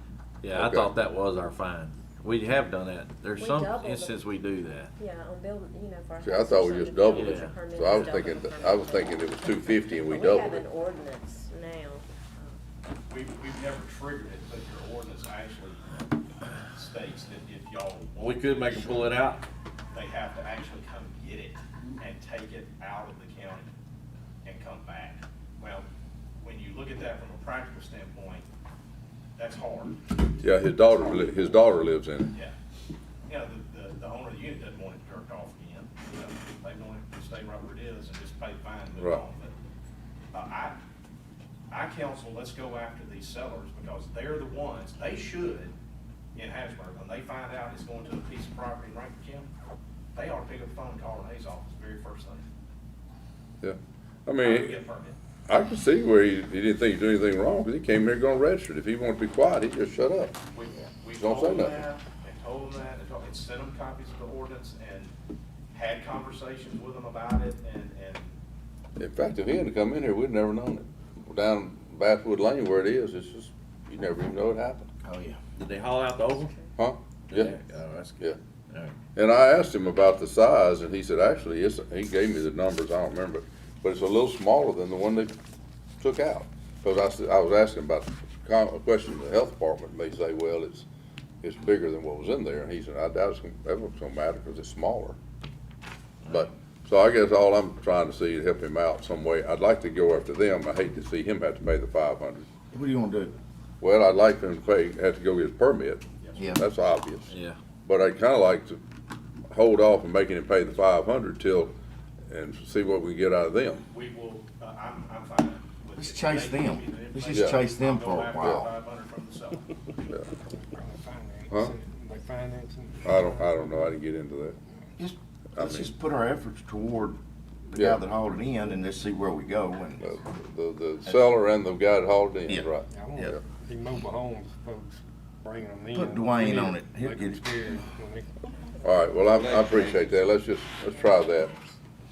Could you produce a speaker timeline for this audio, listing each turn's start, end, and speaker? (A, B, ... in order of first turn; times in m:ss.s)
0:00.4-0:04.9 A
0:00.5-0:00.9 B
0:03.4-0:04.2 C
0:05.0-0:12.6 C
0:06.2-0:10.6 B
0:07.1-0:07.5 A
0:13.1-0:19.3 D
0:18.2-0:19.4 A
0:19.9-0:23.7 D
0:24.4-0:25.8 D
0:26.4-0:28.5 D
0:29.4-0:30.1 D
0:30.4-0:32.3 B
0:33.3-0:39.5 D
0:40.3-0:40.8 D
0:41.7-0:45.7 D
0:46.3-0:49.5 D
0:50.1-0:52.5 D
0:53.6-0:54.8 B
0:54.4-0:55.2 D
0:55.5-1:00.4 B
1:00.5-1:05.1 D
1:01.2-1:01.8 B
1:05.7-1:08.4 D
1:09.0-1:14.9 B
1:15.0-1:15.4 E
1:15.6-1:16.5 A
1:16.8-1:17.5 B
1:17.3-1:18.9 A
1:19.2-1:25.3 B
1:26.0-1:30.8 B
1:31.4-1:35.2 B
1:36.3-1:42.5 B
1:42.7-1:43.3 E
1:43.8-1:47.3 B
1:46.2-1:46.6 D
1:47.3-1:47.6 A
1:47.8-1:48.8 B
1:49.5-1:51.7 B
1:52.3-1:53.8 B
1:53.9-1:59.7 D
1:56.0-1:58.7 E
1:57.3-1:57.6 B
2:00.4-2:03.9 F
2:03.0-2:04.6 B
2:05.0-2:07.2 E
2:05.6-2:05.9 B
2:07.7-2:10.2 E
2:07.7-2:08.0 B
2:10.0-2:13.4 B
2:12.5-2:13.4 E
2:12.9-2:18.5 F
2:15.9-2:17.4 E
2:18.8-2:21.5 B
2:20.9-2:21.8 C